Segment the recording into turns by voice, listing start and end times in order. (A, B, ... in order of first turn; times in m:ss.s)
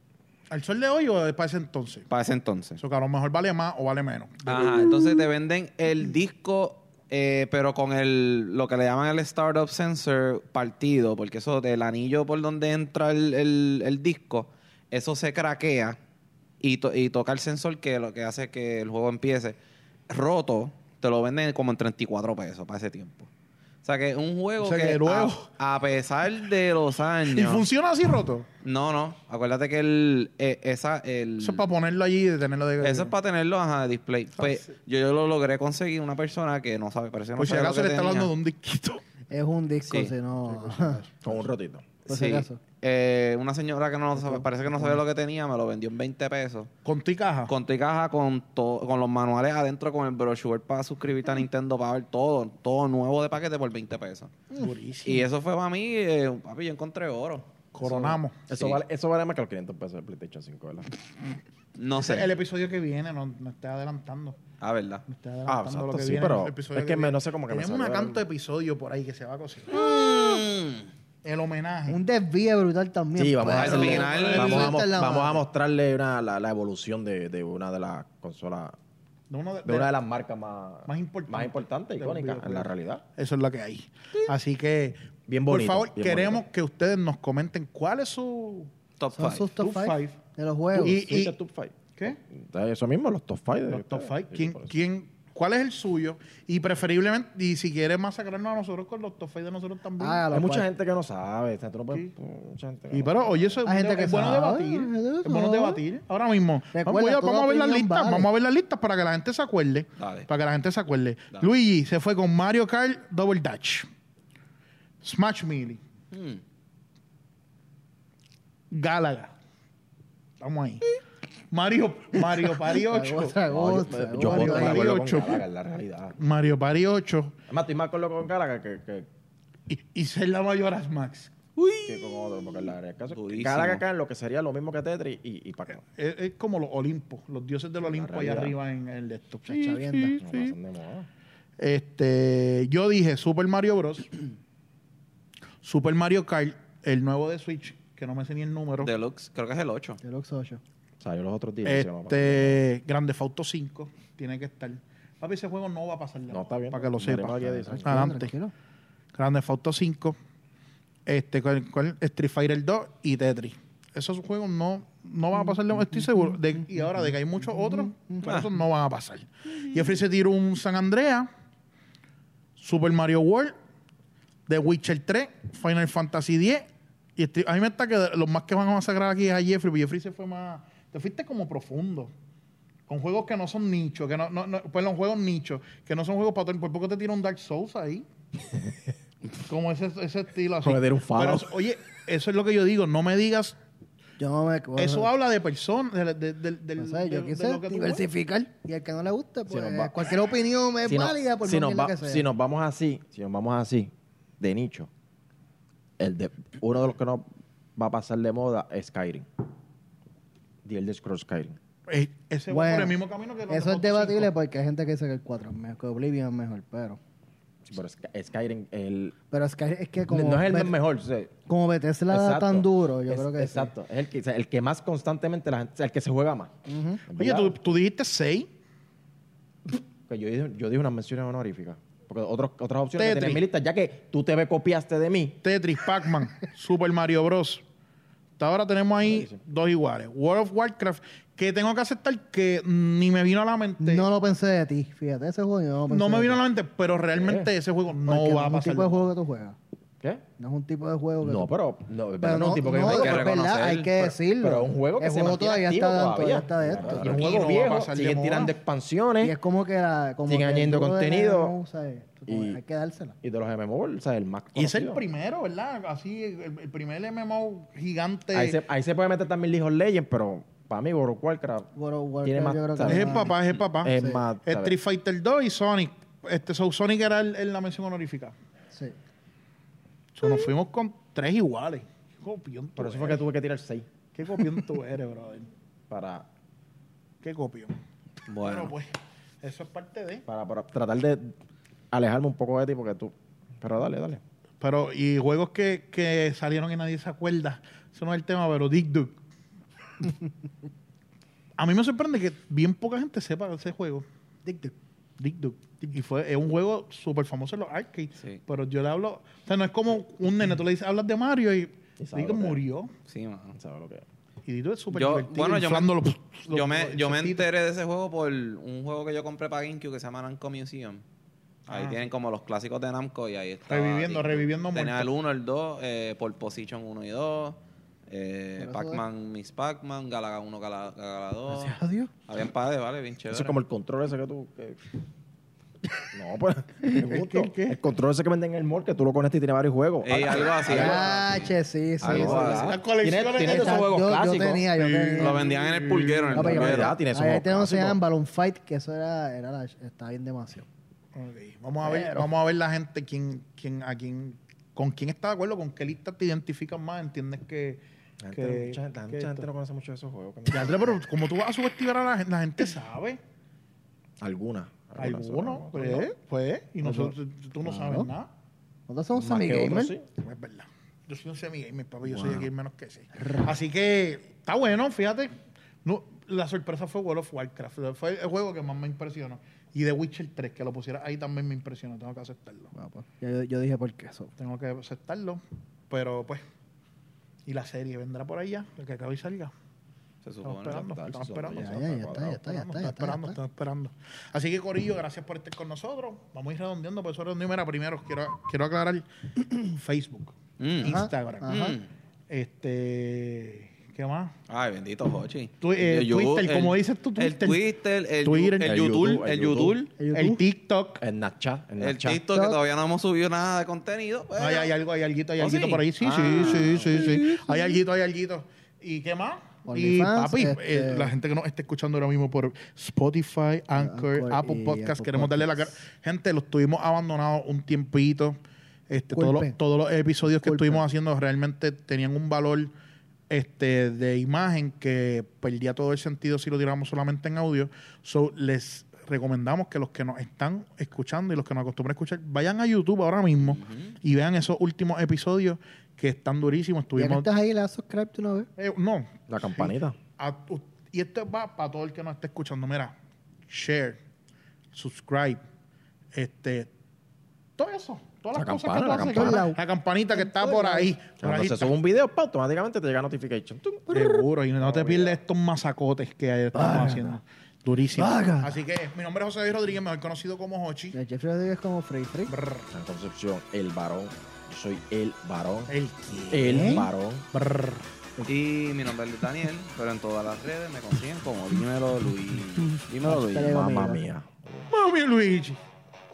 0:00.5-0:02.1 A
0:02.1-0:02.8 B
0:02.8-0:05.1 A
0:04.4-0:16.0 B
0:16.6-0:19.6 B
0:20.1-0:23.3 B
0:23.8-0:27.6 B
0:24.6-0:25.4 A
0:27.3-0:28.5 A
0:28.6-0:31.6 B
0:31.4-0:33.1 A
0:32.8-0:38.3 B
0:37.4-0:39.0 A
0:39.3-0:41.0 C
0:40.5-0:41.5 A
0:41.2-0:41.8 D
0:42.1-0:42.6 C
0:42.1-0:46.7 B
0:44.1-0:45.0 C
0:46.8-0:47.5 A
0:47.5-0:54.3 B
0:54.5-0:55.3 A
0:55.0-0:58.8 B
0:57.7-0:58.4 A
0:58.5-1:00.9 D
1:01.8-1:02.3 B
1:02.0-1:04.4 A
1:04.6-1:05.0 B
1:05.1-1:09.9 A
1:05.4-1:08.2 D
1:09.7-1:10.9 B
1:11.2-1:12.0 A
1:11.9-1:15.4 C
1:13.2-1:18.8 D
1:13.5-1:14.8 B
1:13.6-1:14.8 A
1:19.3-1:19.9 A
1:19.6-1:23.0 D
1:20.9-1:28.7 A
1:25.3-1:26.4 D
1:29.0-1:29.5 B
1:29.1-1:31.0 C
1:29.6-1:30.2 A
1:30.7-1:31.3 A
1:30.9-1:31.8 D
1:32.3-1:34.8 D
1:33.7-1:40.2 A
1:40.0-1:40.7 C
1:40.3-1:43.6 D
1:42.9-1:53.9 A
1:43.6-1:45.8 C
1:46.7-1:48.3 C
1:50.0-1:50.3 B
1:55.0-1:55.8 A
1:56.1-1:56.4 B
1:58.7-1:59.3 A
2:00.4-2:00.8 A
2:01.5-2:03.4 A
2:02.7-2:04.9 C
2:03.5-2:06.2 D
2:04.2-2:05.4 A
2:06.2-2:07.4 A
2:07.5-2:09.1 D
2:09.7-2:11.5 A
2:11.6-2:12.0 B
2:11.8-2:15.8 D
2:13.1-2:13.8 B
2:15.8-2:20.5 A
2:17.8-2:18.6 D
2:19.4-2:20.2 C
2:20.2-2:21.1 D
2:21.6-2:24.2 A
2:25.6-2:28.9 A
2:28.8-2:30.0 B
2:30.0-2:30.6 C
2:31.0-2:32.6 D
2:31.6-2:38.3 A
2:36.3-2:38.2 D
2:37.4-2:38.5 C
2:39.1-2:40.2 A
2:41.0-2:51.3 A
2:46.8-2:47.0 C
2:47.6-2:48.2 C
2:52.6-2:53.5 A
2:54.5-3:02.1 A
3:02.9-3:08.0 A
3:09.4-3:13.5 A
3:10.6-3:11.5 D
3:14.2-3:15.1 C
3:14.8-3:18.0 A
3:16.8-3:22.2 C
3:19.5-3:19.9 D
3:20.8-3:24.9 D
3:26.0-3:29.3 D
3:30.6-3:31.6 D
3:31.9-3:34.3 A
3:32.5-3:33.0 C
3:33.5-3:37.0 C
3:37.6-3:39.1 D
3:39.3-3:40.8 C
3:40.1-3:41.3 D
3:41.5-3:43.7 C
3:42.1-3:46.5 D
3:46.7-3:47.0 C
3:47.0-3:47.7 D
3:47.2-3:48.5 A
3:50.1-3:55.4 D
3:53.0-3:53.4 A
3:55.4-3:57.6 A
3:58.4-4:04.0 A
3:59.0-3:59.4 D
4:03.8-4:06.4 C
4:05.9-4:09.0 A
4:07.1-4:07.5 D
4:08.0-4:09.6 C
4:10.4-4:11.5 C
4:11.2-4:13.3 D
4:12.2-4:17.4 C
4:12.8-4:14.1 B
4:14.4-4:19.4 D
4:16.8-4:18.5 A
4:19.2-4:23.2 C
4:20.2-4:21.5 D
4:22.3-4:22.6 D
4:23.2-4:25.0 D
4:24.6-4:28.6 A
4:28.3-4:31.7 D
4:31.7-4:33.3 C
4:32.2-4:34.7 D
4:32.8-4:38.3 A
4:34.0-4:34.2 C
4:40.1-4:43.2 A
4:42.8-4:43.9 D
4:44.1-4:45.5 A
4:45.9-4:46.3 D
4:47.2-4:47.7 A
4:48.3-4:48.7 B
4:48.4-4:50.2 A
4:50.3-4:51.3 D
4:51.9-4:54.2 D
4:54.6-4:59.2 A
5:01.6-5:04.0 A
5:04.4-5:04.7 C
5:05.2-5:12.9 A
5:12.0-5:12.6 D
5:13.1-5:13.6 B
5:13.6-5:14.0 D
5:14.4-5:17.4 A
5:14.9-5:15.9 B
5:16.5-5:21.0 B
5:21.7-5:27.6 B
5:21.7-5:22.0 A
5:23.7-5:25.1 A
5:28.1-5:31.8 B
5:28.6-5:29.0 C
5:31.5-5:32.1 C
5:32.3-5:33.6 B
5:33.3-5:34.8 D
5:36.1-5:41.1 D
5:36.9-5:37.8 A
5:40.0-5:42.8 B
5:40.6-5:42.6 C
5:42.0-5:44.7 D
5:42.5-5:43.8 A
5:43.4-5:45.4 C
5:44.7-5:46.7 A
5:45.2-5:47.0 B
5:46.3-5:50.6 C
5:46.4-5:48.0 D
5:51.1-5:59.5 A
5:51.8-5:52.3 C
5:58.2-6:01.0 D
6:00.5-6:03.2 A
6:04.2-6:06.1 D
6:05.0-6:08.3 A
6:06.8-6:08.1 C
6:08.9-6:09.9 C
6:09.1-6:10.1 D
6:10.2-6:15.3 A
6:12.1-6:12.4 D
6:15.8-6:22.7 A
6:22.7-6:24.3 C
6:24.4-6:26.4 A
6:27.4-6:29.5 A
6:30.2-6:30.9 B
6:30.4-6:41.6 A
6:30.6-6:32.4 D
6:31.5-6:33.4 C
6:40.6-6:41.8 B
6:40.8-6:41.8 C
6:42.3-6:44.3 A
6:44.5-6:49.9 B
6:45.6-6:47.6 A
6:48.2-6:48.6 A
6:48.6-6:49.8 D
6:50.0-6:50.4 C
6:50.1-6:51.0 A
6:51.0-6:52.2 D
6:51.8-6:54.7 B
6:52.3-6:52.6 C
6:54.4-7:08.4 A
6:55.4-6:57.8 B
6:59.6-7:01.1 C
7:03.8-7:05.8 C
7:08.9-7:12.7 A
7:09.1-7:09.5 C
7:10.4-7:10.8 C
7:13.3-7:27.3 A
7:23.5-7:23.8 B
7:27.0-7:28.5 C
7:28.6-7:33.0 A
7:29.3-7:30.0 D
7:33.5-7:34.0 A
7:34.7-7:35.4 A
7:36.1-7:36.7 A
7:37.6-7:41.7 A
7:38.3-7:39.5 D
7:39.0-7:39.6 C
7:40.1-7:40.9 C
7:41.2-7:45.2 D
7:43.9-7:51.0 A
7:46.5-7:47.2 C
7:48.0-7:48.5 C
7:50.9-7:52.3 C
7:52.3-7:52.7 A
7:52.7-7:55.7 D
7:55.7-7:57.8 A
7:56.3-7:57.3 D
7:56.5-7:56.8 C
7:58.2-8:03.6 B
8:03.0-8:04.0 C
8:03.4-8:04.7 D
8:04.7-8:05.6 A